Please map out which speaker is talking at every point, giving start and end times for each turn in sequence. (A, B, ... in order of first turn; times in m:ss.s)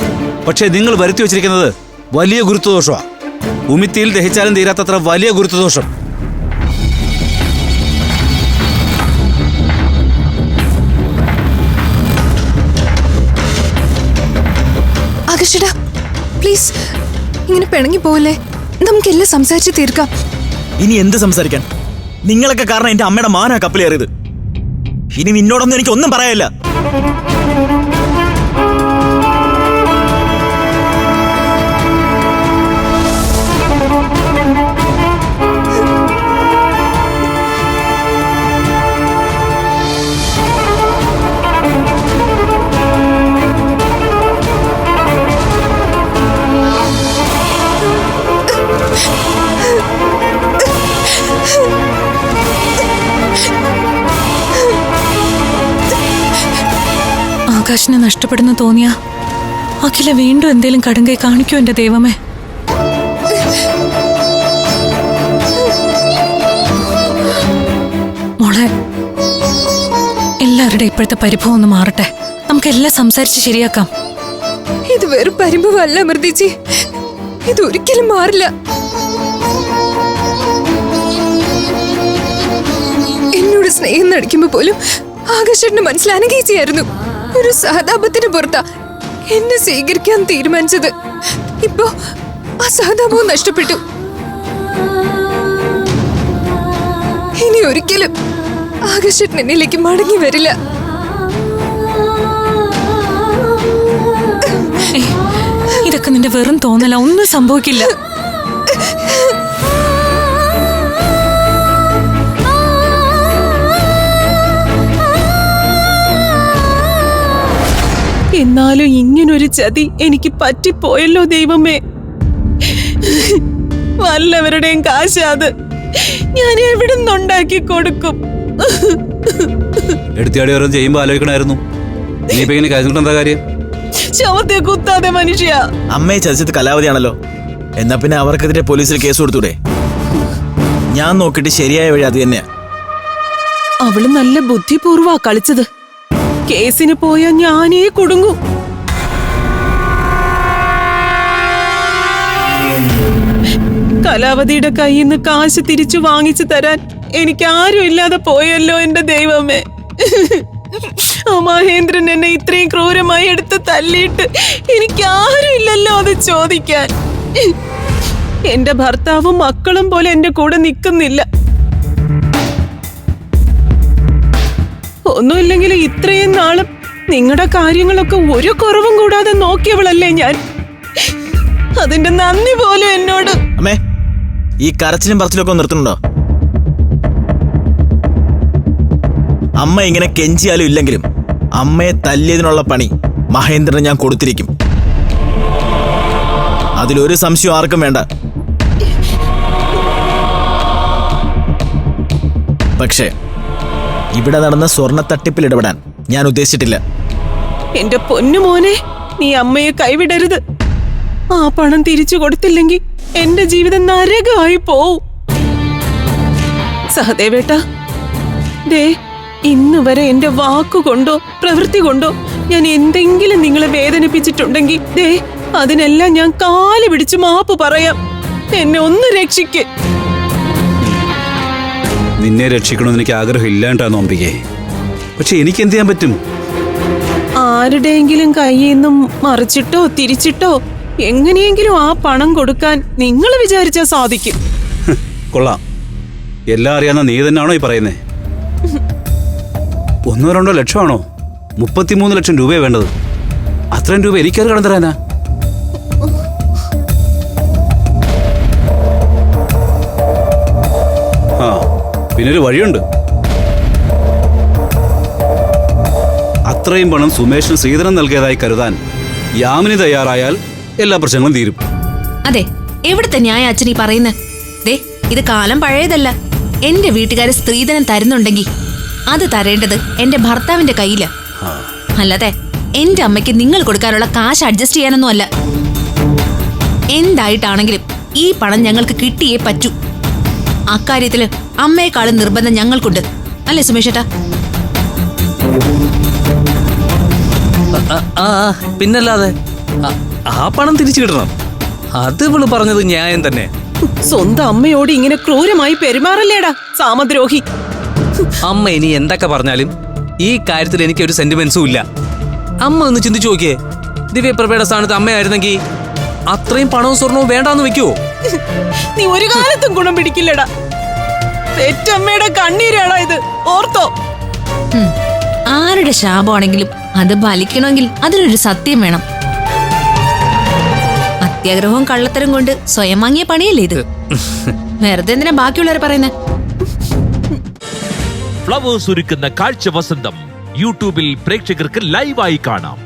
0:00.4-0:03.0 A
0:03.7-0:05.9 A
0:15.3-0:15.7 B
0:16.4-0:16.7 B
0:17.5-0:20.1 B
0:20.8-0:21.6 C
0:22.2-0:24.1 C
0:25.1-0:26.5 C
0:57.5-0:58.9 D
0:59.8-1:02.2 D
1:08.4-1:08.7 D
1:10.4-1:13.9 D
1:14.9-1:16.5 B
1:17.5-1:18.5 B
1:23.3-1:24.8 B
1:25.3-1:28.6 B
1:29.3-1:30.9 B
1:31.6-1:31.9 B
1:32.6-1:33.8 B
1:37.4-1:38.1 B
1:38.9-1:40.5 B
1:45.8-1:47.9 D
1:48.8-1:49.2 B
1:58.3-2:01.8 E
2:02.6-2:03.4 E
2:04.0-2:10.0 E
2:10.2-2:11.6 A
2:12.3-2:13.4 A
2:14.1-2:15.6 E
2:15.9-2:17.1 C
2:17.8-2:19.6 C
2:20.9-2:22.4 C
2:23.8-2:25.6 E
2:26.5-2:28.4 E
2:34.0-2:47.5 E
2:48.4-2:51.2 E
2:55.0-3:00.4 E
3:01.8-3:03.4 E
3:04.6-3:06.0 C
3:09.6-3:11.0 C
3:11.6-3:14.5 C
3:16.8-3:18.0 C
3:22.8-3:23.1 C
3:24.2-3:26.8 C
3:27.8-3:30.4 E
3:31.3-3:35.0 E
3:36.9-3:37.6 E
3:39.5-3:48.0 E
3:48.5-3:49.6 E
3:52.2-3:54.4 A
3:55.2-3:56.2 A
3:57.4-4:04.4 E
4:04.9-4:05.6 A
4:06.5-4:08.0 A
4:10.1-4:11.0 A
4:11.6-4:12.9 A
4:13.7-4:15.0 A
4:21.4-4:21.6 A
4:22.2-4:22.8 A
4:26.5-4:28.8 A
4:29.4-4:31.6 A
4:32.2-4:34.1 F
4:34.6-4:36.1 F
4:36.6-4:38.5 F
4:39.1-4:41.1 F
4:42.0-4:45.3 F
4:46.9-4:49.7 F
4:50.7-4:54.0 F
4:57.8-4:59.3 G
4:59.9-5:01.3 G
5:02.0-5:03.5 G
5:04.1-5:07.4 E
5:08.5-5:09.7 G
5:10.2-5:11.8 G
5:12.6-5:13.5 G
5:14.1-5:15.6 G
5:16.3-5:17.9 G
5:19.0-5:20.5 E
5:21.6-5:23.9 E
5:25.5-5:29.0 F
5:31.2-5:33.8 F
5:34.8-5:36.1 F
5:38.5-5:42.8 H